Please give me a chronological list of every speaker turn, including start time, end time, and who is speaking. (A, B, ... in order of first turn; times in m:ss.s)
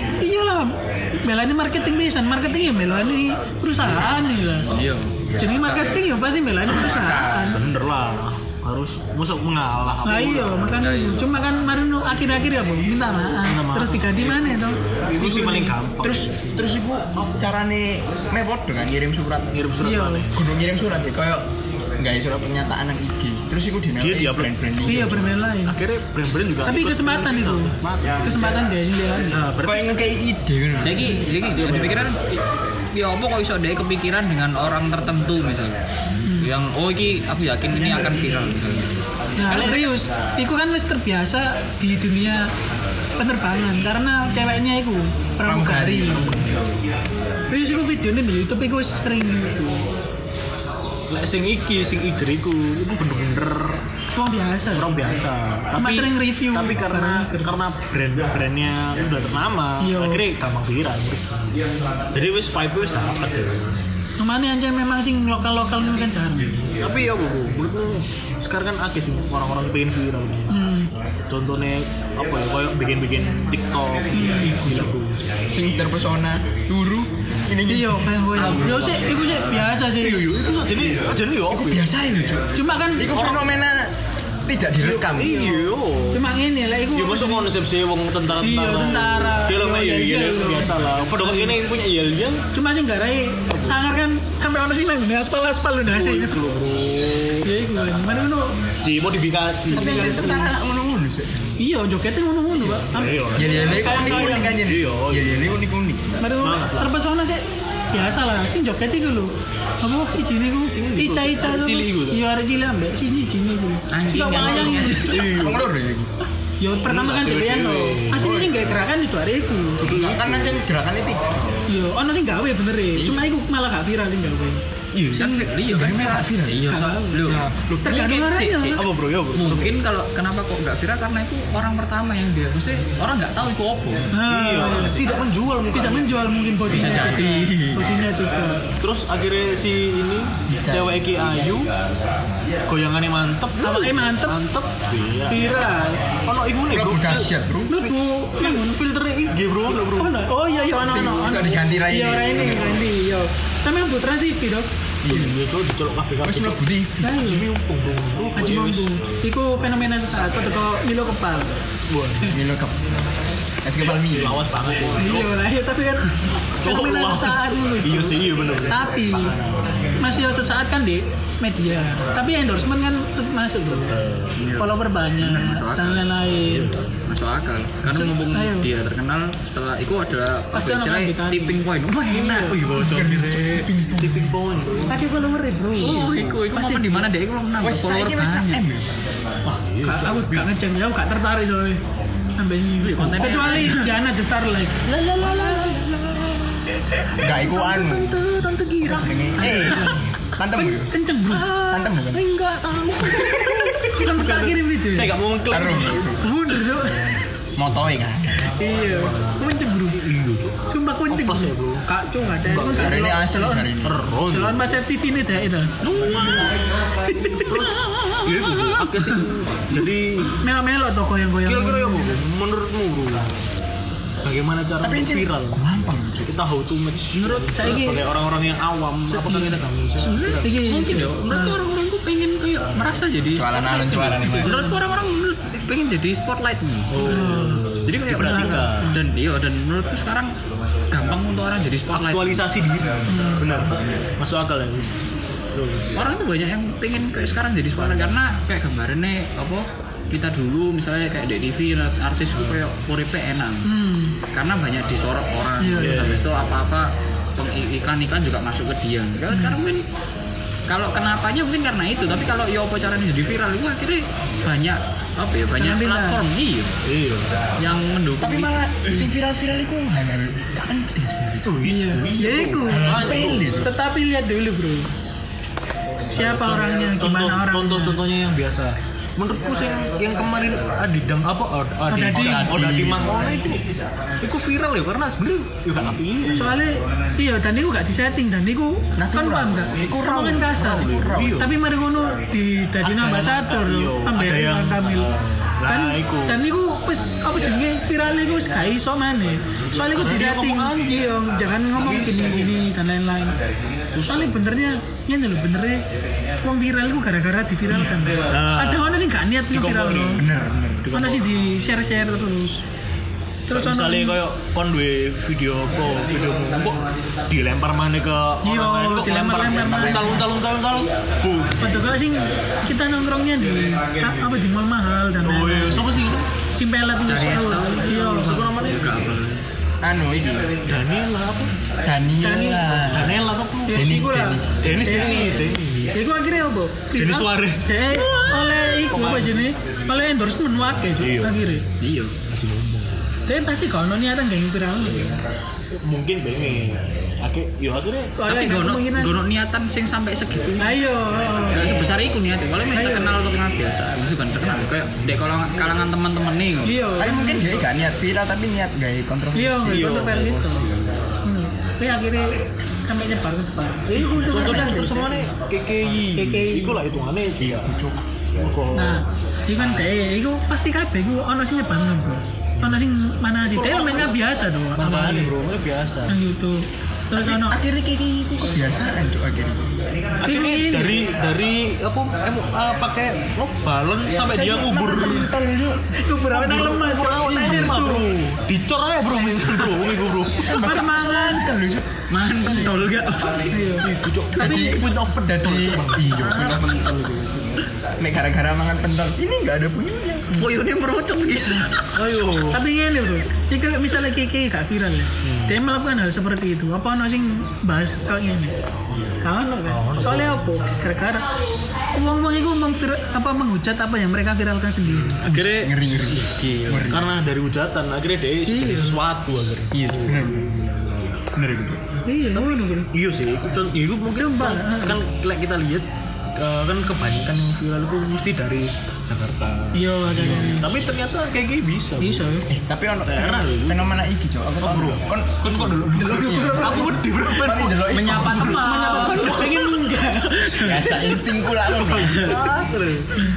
0:00.2-0:04.7 A
0:03.8-0:05.9 B
0:05.4-0:07.6 A
0:06.8-0:07.6 B
0:07.5-0:10.7 C
0:10.0-0:15.8 A
0:10.8-0:11.2 B
0:13.5-0:14.5 C
0:15.1-0:16.6 C
0:16.0-0:19.6 D
0:17.2-0:17.5 C
0:19.5-0:20.5 C
0:19.8-0:20.3 A
0:20.4-0:21.5 D
0:22.0-0:25.3 D
0:24.0-0:28.5 C
0:24.8-0:25.8 A
0:26.6-0:29.5 A
0:29.3-0:29.9 C
0:29.6-0:31.2 D
0:30.8-0:35.8 B
0:31.6-0:32.1 C
0:36.2-0:36.5 A
0:36.3-0:39.9 B
0:39.4-0:42.5 A
0:43.2-0:46.4 A
0:45.4-0:46.8 D
0:47.5-0:49.9 A
0:51.1-0:53.8 C
0:54.2-0:55.0 A
0:54.7-1:03.8 C
0:55.8-0:57.6 A
0:59.8-1:00.2 A
1:04.2-1:06.6 A
1:06.8-1:10.6 C
1:10.5-1:10.9 A
1:11.3-1:15.3 C
1:14.1-1:14.9 A
1:15.5-1:18.4 D
1:17.7-1:20.3 A
1:18.4-1:19.4 C
1:19.9-1:21.9 C
1:21.5-1:23.9 D
1:22.6-1:23.3 A
1:24.5-1:25.6 D
1:24.8-1:26.2 C
1:26.1-1:27.5 A
1:26.9-1:32.4 C
1:28.4-1:31.6 A
1:32.5-1:36.4 A
1:33.5-1:33.8 C
1:35.9-1:37.5 C
1:37.4-1:38.6 A
1:38.8-1:40.5 C
1:39.7-1:40.6 A
1:39.7-1:41.7 D
1:41.6-1:44.6 A
1:42.6-1:45.5 C
1:43.3-1:46.3 D
1:46.2-1:55.2 A
1:46.3-1:46.9 C
1:50.6-1:52.2 C
1:53.9-1:55.2 B
1:54.3-1:55.7 C
1:55.2-1:56.1 D
1:56.6-1:59.9 A
1:56.8-1:58.4 C
1:58.2-1:58.6 D
1:59.8-2:01.6 D
1:59.8-2:00.6 C
2:01.7-2:04.6 A
2:03.0-2:03.2 D
2:04.9-2:05.3 C
2:05.1-2:06.7 D
2:05.1-2:14.1 B
2:06.7-2:07.3 A
2:07.2-2:08.0 C
2:07.8-2:08.8 A
2:08.8-2:09.8 C
2:14.1-2:15.2 A
2:14.1-2:16.2 C
2:15.7-2:18.6 A
2:16.7-2:17.4 B
2:16.9-2:17.9 D
2:18.8-2:21.7 C
2:20.5-2:21.0 D
2:22.7-2:25.5 C
2:23.6-2:24.4 A
2:25.3-2:26.0 A
2:26.2-2:30.2 C
2:26.7-2:27.8 D
2:27.7-2:28.8 A
2:30.0-2:34.7 A
2:30.7-2:32.7 D
2:35.0-2:35.4 D
2:35.1-2:39.0 C
2:36.2-2:37.3 D
2:37.0-2:37.5 A
2:38.4-2:41.5 A
2:41.9-2:42.3 C
2:42.3-2:42.9 D
2:43.6-2:44.4 D
2:43.9-2:45.3 C
2:45.0-2:49.4 A
2:46.6-2:50.0 C
2:50.0-2:54.0 A
2:53.8-2:54.4 C
2:54.4-2:56.1 B
2:54.6-2:56.7 A
2:56.5-2:56.9 C
2:57.1-3:03.6 B
2:57.9-2:58.7 A
3:00.5-3:02.6 A
3:02.3-3:05.0 C
3:02.7-3:04.4 D
3:04.9-3:07.1 A
3:05.8-3:08.6 B
3:07.6-3:08.9 D
3:09.4-3:10.5 C
3:09.8-3:11.8 A
3:12.4-3:15.7 A
3:12.8-3:13.9 B
3:13.3-3:13.7 C
3:14.9-3:20.0 C
3:17.2-3:18.3 D
3:18.8-3:20.9 D
3:19.4-3:20.0 A
3:20.6-3:21.5 A
3:21.3-3:26.1 C
3:21.6-3:22.2 D
3:23.0-3:23.9 D
3:23.9-3:25.2 A
3:25.5-3:26.2 D
3:26.2-3:27.0 A
3:26.8-3:27.1 C
3:27.6-3:28.5 D
3:28.6-3:30.0 A
3:29.9-3:31.8 C
3:30.7-3:33.7 A
3:32.5-3:33.1 C
3:32.7-3:34.0 D
3:33.8-3:34.6 C
3:34.3-3:35.7 A
3:35.8-3:36.5 C
3:35.9-3:36.4 B
3:37.1-3:39.2 A
3:37.5-3:40.5 C
3:40.4-3:42.2 A
3:41.4-3:43.3 C
3:44.2-3:45.6 C
3:44.8-3:46.3 D
3:46.2-3:50.5 C
3:47.1-3:47.8 B
3:47.6-3:48.1 A
3:49.1-4:00.3 B
3:50.4-3:51.6 A
3:53.4-3:54.6 D
3:54.2-3:54.8 A
3:54.5-3:54.7 C
3:56.9-3:59.0 C
3:57.1-3:57.7 A
3:58.2-3:59.0 A
4:00.9-4:02.5 B
4:01.9-4:05.0 C
4:03.1-4:03.5 A
4:05.5-4:06.0 C
4:06.0-4:13.7 B
4:13.6-4:14.2 A
4:14.3-4:19.8 B
4:15.6-4:16.1 A
4:15.8-4:16.3 C
4:19.3-4:19.6 A
4:20.7-4:26.8 B
4:25.6-4:26.2 A
4:26.8-4:27.4 C
4:27.6-4:28.6 B
4:28.2-4:31.6 D
4:31.4-4:33.7 C
4:31.6-4:34.9 A
4:32.6-4:33.7 D
4:36.1-4:43.6 C
4:36.1-4:38.0 A
4:41.9-4:42.8 A
4:42.1-4:43.4 D
4:44.2-4:46.6 C
4:46.3-4:55.1 A
4:49.0-4:51.5 D
4:50.4-4:51.5 C
4:52.8-4:56.4 C
4:55.7-5:03.4 A
4:59.7-5:01.0 C
5:01.7-5:02.5 C
5:03.9-5:04.3 C
5:04.1-5:05.8 A
5:06.4-5:10.2 A
5:08.3-5:08.9 C
5:09.5-5:10.3 C
5:10.2-5:11.0 D
5:10.9-5:11.2 C
5:10.9-5:12.6 A
5:13.5-5:14.2 A
5:13.5-5:21.7 C
5:18.4-5:20.3 A
5:19.8-5:20.2 D
5:21.6-5:28.5 A
5:25.2-5:26.3 C
5:27.0-5:29.4 B
5:27.8-5:29.1 C
5:29.8-5:30.6 D
5:30.7-5:31.6 C
5:31.8-5:35.4 D
5:32.2-5:32.8 A
5:32.9-5:34.0 C
5:33.7-5:35.4 A
5:34.6-5:36.0 C
5:35.9-5:41.6 A
5:37.0-5:38.2 C
5:38.8-5:39.4 C
5:41.0-5:41.4 C
5:41.8-5:42.1 B
5:42.3-5:43.1 C
5:43.3-5:45.2 A
5:45.7-5:48.2 C
5:48.2-5:49.2 A
5:48.3-5:50.8 B
5:50.6-5:51.8 A
5:51.5-5:56.8 B
5:52.7-5:53.2 A
5:56.6-5:57.5 A
5:57.0-5:59.9 D
5:59.3-6:00.7 A
5:59.6-6:00.7 C
6:01.2-6:05.3 A
6:04.0-6:07.8 C
6:06.2-6:06.8 A
6:07.4-6:08.0 D
6:08.3-6:09.0 C
6:08.7-6:15.3 A
6:12.6-6:12.8 C
6:13.4-6:14.2 C
6:14.8-6:16.2 C
6:16.1-6:17.6 A
6:17.2-6:19.7 D
6:20.2-6:21.0 A
6:20.2-6:25.3 C
6:24.1-6:25.9 D
6:24.9-6:25.3 A
6:26.0-6:28.1 A
6:26.3-6:30.5 C
6:27.4-6:27.8 D
6:30.4-6:32.1 D
6:30.5-6:31.5 A
6:32.1-6:33.6 B
6:33.5-6:33.9 A
6:33.8-6:36.8 C
6:34.4-6:40.4 D
6:40.3-6:42.0 B
6:42.0-6:42.6 C
6:42.5-6:48.5 A
6:45.2-6:45.6 C
6:49.2-6:51.3 A
6:49.7-6:50.4 C
6:51.9-6:55.3 A
6:54.9-6:55.8 C
6:55.3-6:57.1 D
6:56.5-6:56.8 B
6:56.7-7:01.2 C
6:58.5-6:59.0 A
6:59.7-7:00.6 D
7:01.3-7:01.8 D
7:02.1-7:02.9 A
7:02.9-7:12.3 C
7:04.2-7:05.0 A
7:09.7-7:10.7 A
7:12.0-7:12.5 A
7:12.5-7:19.8 D
7:13.0-7:14.0 C
7:14.6-7:18.4 C
7:15.9-7:17.0 A
7:17.9-7:19.4 B
7:18.4-7:21.2 A
7:19.0-7:19.7 C
7:20.6-7:22.6 D
7:21.7-7:23.1 C